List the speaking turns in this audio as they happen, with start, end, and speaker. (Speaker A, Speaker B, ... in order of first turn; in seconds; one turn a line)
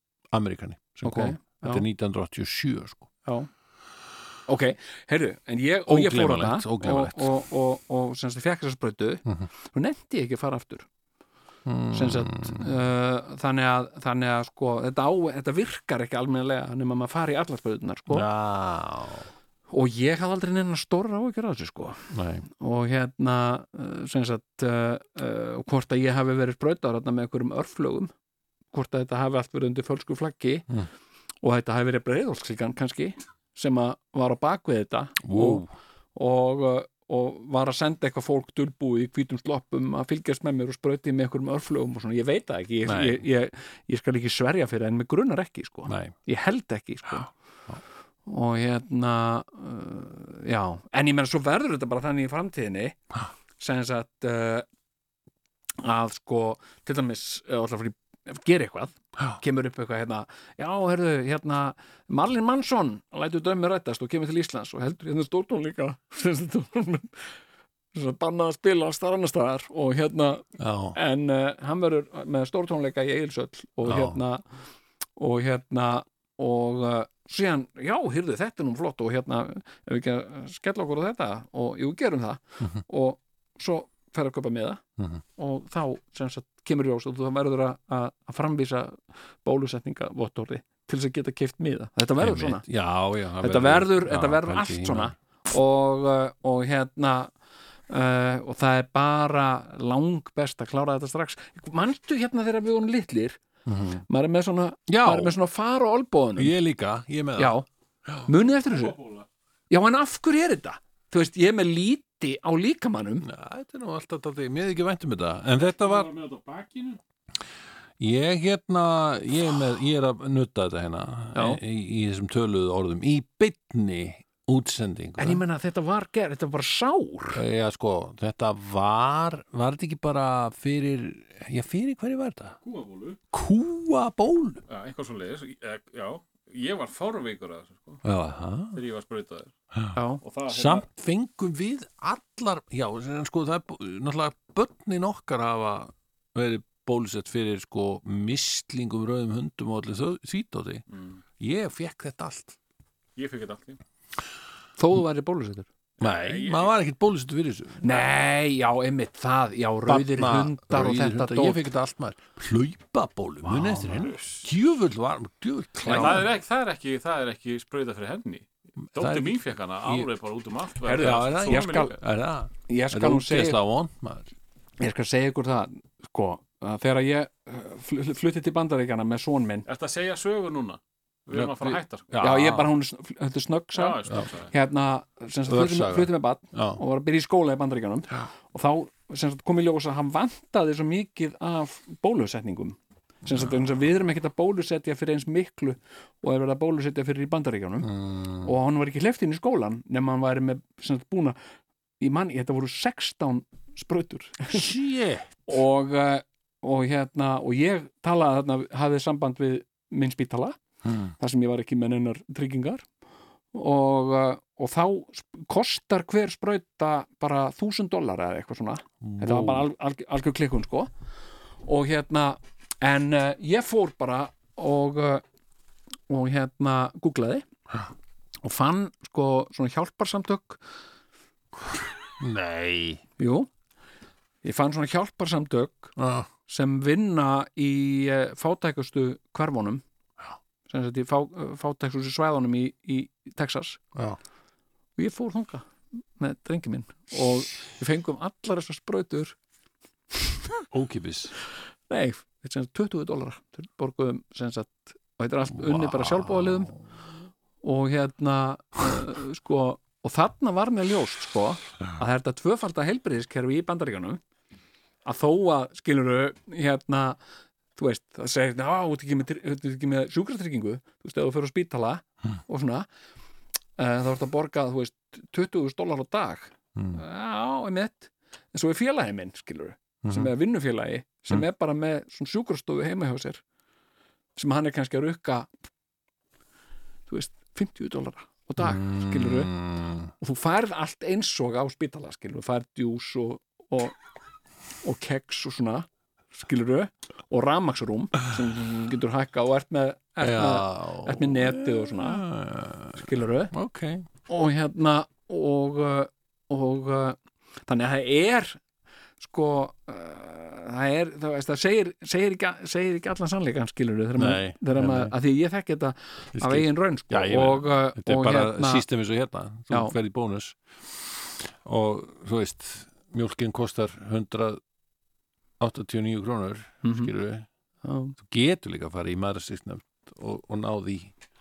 Speaker A: 0.3-3.1
Speaker B: 1.0-1.8
Speaker B: 4.5-10.9
Speaker A: 5.9-7.3
Speaker A: 11.6-12.7
Speaker B: 11.9-18.3
Speaker A: 18.1-19.3
Speaker B: 19.7-28.1
Speaker A: 22.1-22.4
Speaker B: 28.7-30.6
Speaker B: 31.4-35.6
Speaker A: 35.2-35.7
Speaker B: 36.1-47.3
Speaker A: 42.8-43.2
Speaker A: 45.9-46.1
Speaker B: 48.3-53.0
Speaker B: 53.6-54.6
Speaker B: 55.8-67.2
Speaker B: 67.9-74.4
Speaker A: 70.6-71.0
Speaker A: 73.8-74.2
Speaker B: 75.2-84.8
Speaker B: 85.4-92.6
Speaker A: 92.2-95.1
Speaker B: 93.4-97.3
Speaker B: 97.9-103.4
Speaker A: 103.7-104.0
Speaker B: 104.1-106.5
Speaker A: 104.9-105.3
Speaker A: 106.4-107.5
Speaker B: 107.4-107.6
Speaker B: 108.3-109.0
Speaker C: 108.7-109.3
Speaker B: 109.7-113.3
Speaker A: 113.2-116.1
Speaker C: 115.7-117.0
Speaker A: 118.0-125.4
Speaker B: 121.3-121.6
Speaker B: 125.2-127.4
Speaker A: 127.3-132.6
Speaker C: 132.6-133.2
Speaker A: 133.3-134.6
Speaker C: 134.7-138.0
Speaker A: 138.0-138.8
Speaker C: 138.7-139.5
Speaker B: 139.9-140.2
Speaker C: 140.2-140.8
Speaker A: 140.5-150.8
Speaker C: 150.9-151.2
Speaker A: 151.4-152.6
Speaker C: 153.2-153.8
Speaker B: 154.8-155.7
Speaker C: 156.0-156.7
Speaker A: 156.0-157.8
Speaker B: 157.8-161.6
Speaker A: 159.9-166.3
Speaker B: 163.4-164.1
Speaker C: 163.9-164.5
Speaker B: 165.8-166.2
Speaker C: 165.8-172.0
Speaker A: 168.9-170.1
Speaker B: 170.8-172.0
Speaker A: 170.9-174.3
Speaker B: 172.7-173.6
Speaker B: 174.8-179.7
Speaker C: 179.7-182.2
Speaker A: 181.3-182.7
Speaker B: 182.2-184.0
Speaker C: 183.7-184.5
Speaker B: 184.5-201.4
Speaker A: 185.5-186.8
Speaker A: 193.3-193.6
Speaker A: 197.8-198.5
Speaker B: 202.0-204.7
Speaker A: 204.5-205.6
Speaker B: 205.5-210.6
Speaker A: 210.8-211.1
Speaker B: 211.2-212.8
Speaker B: 213.5-220.9
Speaker A: 219.0-219.7
Speaker B: 221.6-225.2
Speaker B: 226.1-227.4
Speaker B: 228.4-230.6
Speaker A: 232.2-233.0
Speaker B: 233.2-233.5
Speaker B: 234.4-235.9
Speaker A: 236.0-236.3
Speaker B: 236.5-239.8
Speaker B: 240.7-243.8
Speaker B: 245.0-249.3
Speaker A: 250.7-251.3
Speaker B: 251.9-256.7
Speaker A: 255.6-256.8
Speaker B: 257.6-264.2
Speaker B: 265.1-267.2
Speaker B: 267.8-272.9
Speaker B: 273.8-283.4
Speaker A: 280.0-280.3
Speaker B: 284.4-285.5
Speaker B: 287.1-289.5
Speaker A: 288.6-290.1
Speaker B: 290.2-294.0
Speaker B: 294.8-302.2
Speaker A: 300.2-304.1
Speaker B: 303.0-303.5
Speaker B: 304.3-308.6
Speaker B: 309.2-318.8
Speaker A: 314.2-315.1
Speaker A: 316.3-324.6
Speaker B: 319.7-319.9
Speaker A: 325.6-327.5
Speaker B: 326.8-327.1
Speaker B: 327.8-328.1
Speaker A: 328.2-331.1